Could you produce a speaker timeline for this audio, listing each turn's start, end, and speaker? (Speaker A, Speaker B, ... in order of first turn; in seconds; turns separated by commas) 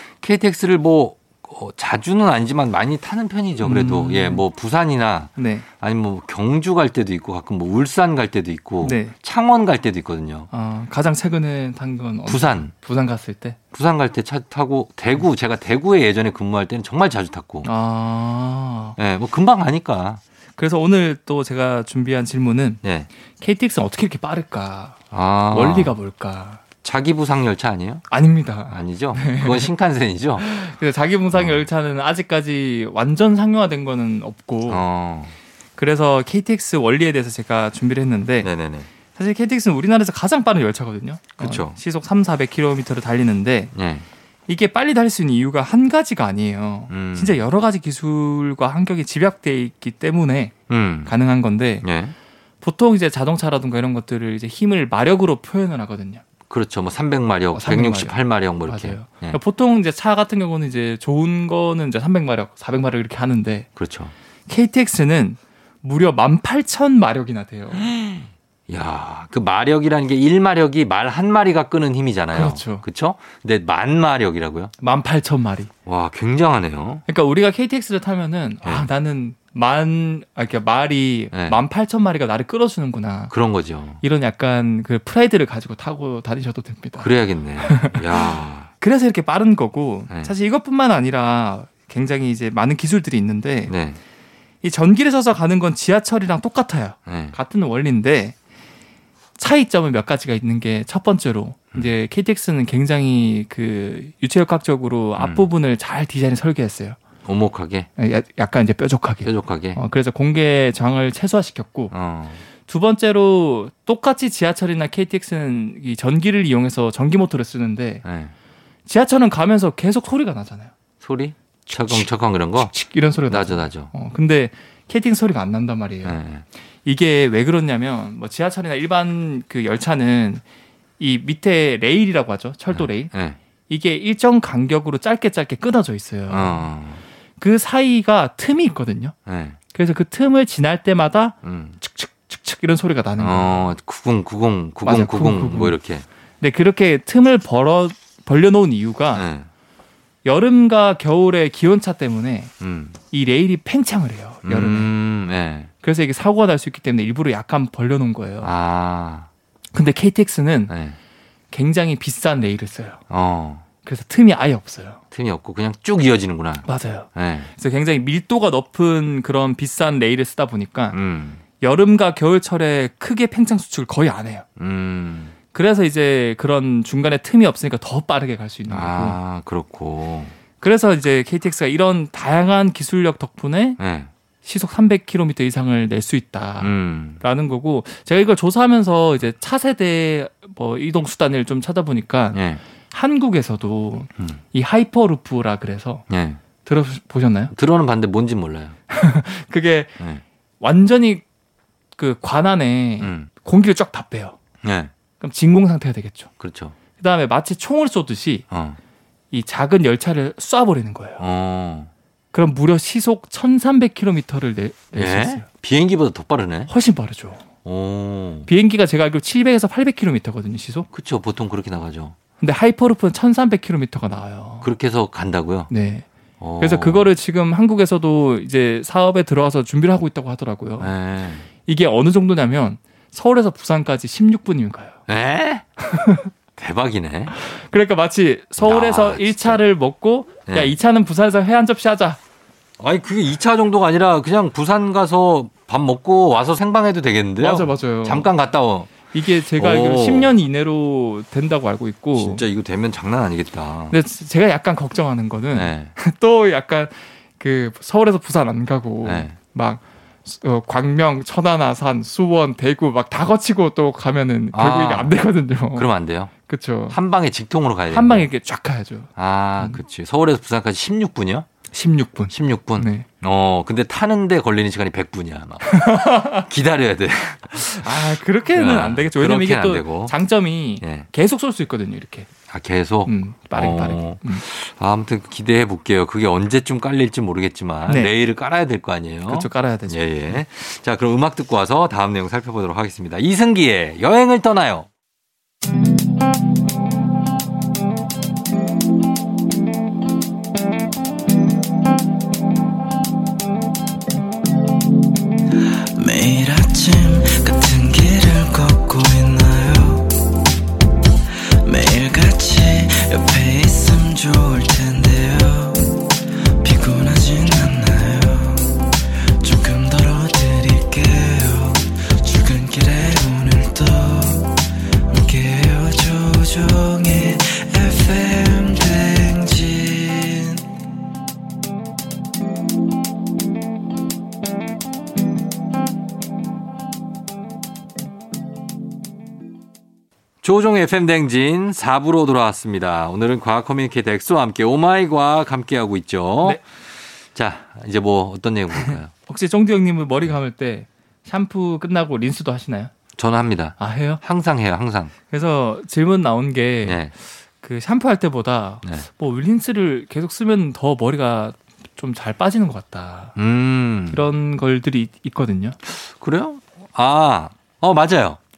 Speaker A: 0.2-10.5, Speaker B: 3.6-4.4, Speaker B: 5.4-5.7, Speaker B: 8.8-9.2, Speaker B: 10.5-13.6, Speaker A: 12.3-12.7, Speaker A: 13.7-17.7, Speaker B: 17.6-19.0, Speaker A: 19.0-20.2, Speaker B: 20.6-22.8, Speaker A: 22.8-23.1, Speaker B: 23.4-26.6, Speaker A: 25.1-26.0, Speaker A: 26.8-28.1, Speaker B: 28.1-29.7, Speaker A: 28.7-30.4, Speaker B: 30.4-34.8, Speaker A: 31.3-31.7, Speaker A: 34.7-35.3, Speaker B: 35.8-38.5, Speaker A: 38.4-38.9, Speaker B: 39.1-43.7, Speaker A: 41.4-41.8, Speaker A: 43.7-44.0, Speaker B: 44.5-50.5, Speaker A: 46.9-47.4, Speaker A: 50.7-51.1, Speaker B: 51.1-51.9, Speaker A: 51.8-52.1, Speaker B: 52.6-56.2, Speaker A: 56.5-59.4, Speaker B: 57.5-63.7, Speaker A: 63.8-64.1, Speaker B: 64.5-67.8, Speaker A: 67.7-74.7, Speaker B: 72.3-72.8, Speaker B: 74.8-75.7, Speaker A: 75.9-77.0, Speaker B: 77.1-83.3, Speaker A: 81.3-81.6, Speaker A: 83.3-84.0, Speaker B: 84.0-87.1, Speaker A: 87.0-88.7, Speaker B: 87.6-93.7, Speaker A: 93.7-94.0, Speaker B: 94.6-98.3, Speaker A: 97.1-97.4, Speaker B: 99.4-107.0, Speaker A: 105.2-105.5, Speaker A: 107.2-107.9, Speaker B: 108.0-111.9, Speaker A: 109.2-109.8, Speaker A: 111.9-112.4, Speaker B: 112.7-118.0, Speaker A: 118.0-118.3, Speaker B: 118.9-120.7, Speaker A: 121.0-122.7, Speaker B: 121.7-126.2, Speaker A: 123.3-123.9, Speaker A: 126.0-126.5, Speaker B: 126.8-130.4, Speaker B: 131.0-133.1, Speaker A: 132.7-133.4, Speaker B: 133.7-136.7, Speaker A: 136.3-137.0, Speaker B: 137.4-139.2, Speaker A: 139.3-139.6, Speaker B: 139.7-143.7, Speaker A: 141.4-141.8, Speaker A: 143.2-146.1, Speaker B: 144.8-145.8, Speaker B: 146.4-149.3, Speaker A: 149.1-149.5, Speaker B: 150.2-152.5, Speaker A: 152.6-153.0, Speaker B: 153.1-154.9, Speaker A: 154.4-155.7, Speaker B: 155.8-158.5, Speaker A: 158.4-159.3, Speaker B: 159.7-160.7, Speaker A: 160.7-161.0, Speaker B: 161.5-163.0, Speaker A: 163.1-163.7, Speaker B: 163.8-165.0, Speaker A: 165.1-167.5, Speaker B: 166.7-171.0, Speaker A: 170.9-171.4, Speaker B: 171.6-174.5, Speaker A: 174.6-175.3, Speaker B: 175.5-179.2, Speaker A: 178.7-180.3, Speaker B: 180.6-183.8, Speaker A: 183.8-184.1, Speaker B: 184.4-192.4, Speaker A: 186.6-187.2, Speaker A: 192.3-192.6, Speaker B: 192.9-196.0, Speaker A: 196.1-196.4, Speaker B: 196.6-197.5, Speaker A: 197.5-198.8, Speaker B: 198.9-199.9, Speaker B: 200.6-201.2, Speaker B: 202.0-204.4, Speaker A: 203.0-203.3, Speaker A: 204.6-204.9, Speaker B: 205.2-206.3, Speaker A: 206.4-206.8, Speaker B: 207.0-208.5, Speaker A: 208.5-208.8, Speaker B: 209.3-211.2, Speaker A: 211.2-211.9, Speaker B: 212.3-215.5, Speaker A: 214.9-216.7, Speaker B: 216.7-217.4, Speaker A: 217.7-218.5, Speaker B: 218.5-220.9, Speaker A: 220.9-222.2, Speaker B: 222.4-224.7, Speaker A: 224.6-225.7, Speaker B: 225.7-226.1, Speaker A: 226.4-227.1, Speaker B: 226.6-230.9, Speaker A: 230.8-231.5, Speaker B: 231.7-235.0, Speaker A: 235.1-235.7, Speaker B: 235.8-236.3, Speaker A: 236.6-237.3, Speaker B: 237.3-242.2, Speaker A: 238.6-239.6, Speaker A: 240.5-240.8, Speaker A: 242.8-250.3, Speaker B: 247.4-248.3, Speaker B: 249.1-252.4, Speaker A: 252.2-254.0, Speaker B: 253.9-265.9, Speaker A: 255.5-255.9, Speaker A: 259.0-259.4, Speaker A: 264.5-265.1, Speaker A: 265.7-266.3, Speaker B: 266.5-267.0, Speaker A: 266.9-268.3, Speaker B: 267.9-269.8, Speaker A: 269.2-271.5, Speaker B: 271.7-273.1, Speaker A: 272.3-280.1, Speaker B: 275.6-276.5, Speaker B: 277.6-282.3, Speaker A: 280.8-281.1, Speaker A: 282.5-294.9, Speaker B: 283.1-284.4, Speaker B: 287.9-288.1, Speaker B: 289.3-290.4, Speaker C: 306.0-310.2, Speaker C: 311.6-330.6, Speaker A: 340.4-346.6, Speaker A: 347.3-349.1, Speaker B: 348.8-352.9, Speaker A: 353.2-355.1, Speaker B: 353.8-354.2, Speaker B: 355.3-357.0, Speaker A: 356.9-357.1, Speaker B: 357.6-363.4, Speaker A: 363.4-364.2, Speaker B: 364.1-365.8, Speaker A: 365.8-368.4